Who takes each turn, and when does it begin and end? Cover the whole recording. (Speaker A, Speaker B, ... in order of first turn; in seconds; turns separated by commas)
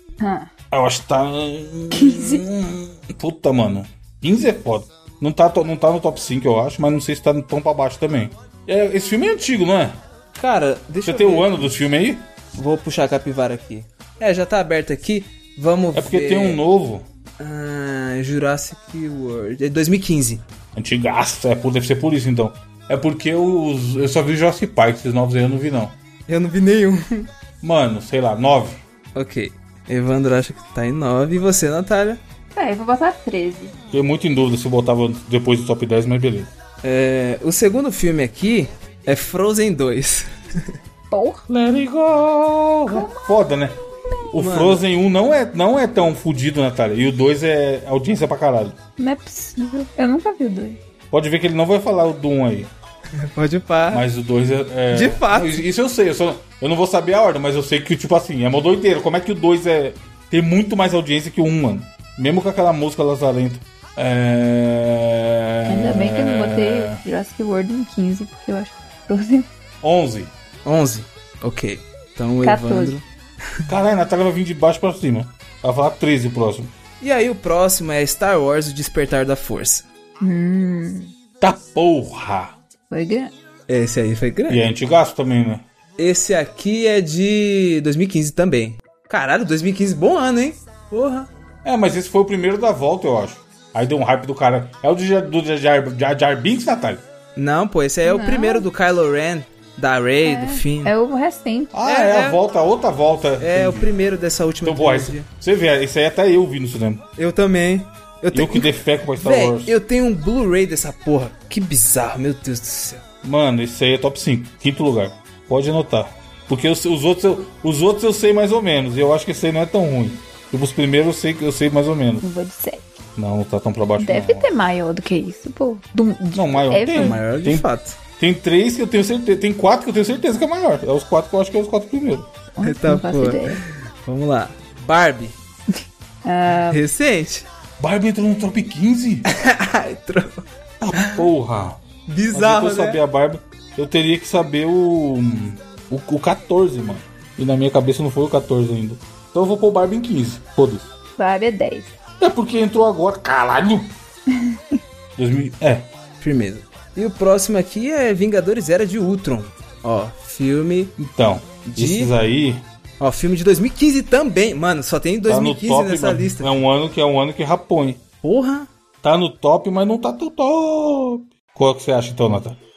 Speaker A: 0.2-0.5, Speaker B: 0.7-10.0, Speaker A: 1.9-2.4, Speaker C: 10.4-11.8, Speaker B: 11.1-12.3, Speaker C: 12.5-16.6, Speaker B: 15.9-17.1, Speaker C: 17.4-20.4, Speaker B: 20.8-26.0, Speaker C: 26.3-27.3, Speaker B: 27.6-28.8, Speaker C: 29.1-32.2, Speaker A: 32.5-33.7, Speaker B: 33.9-36.5, Speaker C: 36.8-40.8, Speaker A: 41.1-41.5, Speaker B: 41.5-43.8, Speaker A: 42.9-43.4, Speaker B: 44.3-48.8, Speaker C: 44.4-44.8, Speaker A: 49.0-50.8, Speaker B: 51.1-52.7, Speaker C: 53.2-54.0, Speaker B: 53.9-67.0, Speaker C: 54.9-55.6, Speaker A: 65.7-69.5, Speaker B: 69.8-70.3, Speaker C: 70.7-73.7, Speaker A: 72.4-73.0, Speaker B: 73.7-76.7, Speaker C: 77.0-79.9, Speaker A: 80.2-81.1, Speaker B: 81.4-82.5, Speaker A: 82.9-83.3, Speaker C: 83.7-84.6, Speaker B: 84.5-85.7, Speaker C: 86.0-91.3, Speaker B: 91.6-97.0, Speaker C: 97.4-100.9, Speaker A: 98.0-98.7, Speaker A: 100.2-101.7, Speaker B: 101.7-103.9, Speaker C: 101.8-102.4, Speaker C: 103.4-105.3, Speaker B: 104.6-107.0, Speaker C: 107.2-113.0, Speaker B: 108.3-109.8, Speaker B: 113.2-122.2, Speaker A: 122.2-122.9, Speaker B: 123.2-124.5, Speaker A: 124.0-127.2, Speaker B: 126.3-127.7, Speaker C: 126.9-128.0, Speaker B: 128.2-132.3, Speaker A: 132.6-133.6, Speaker C: 132.6-135.4, Speaker A: 136.2-136.8, Speaker C: 136.7-137.5, Speaker B: 137.8-139.3, Speaker C: 139.3-140.4, Speaker B: 140.8-141.8, Speaker C: 140.9-141.3, Speaker C: 142.1-143.0, Speaker B: 142.3-150.9, Speaker A: 151.2-151.9, Speaker B: 152.2-153.9, Speaker A: 154.3-154.6, Speaker B: 155.2-155.9, Speaker C: 156.2-161.0, Speaker B: 161.0-162.6, Speaker C: 161.7-162.1, Speaker C: 163.0-166.6, Speaker B: 165.3-168.0, Speaker C: 168.2-168.7, Speaker B: 169.0-172.6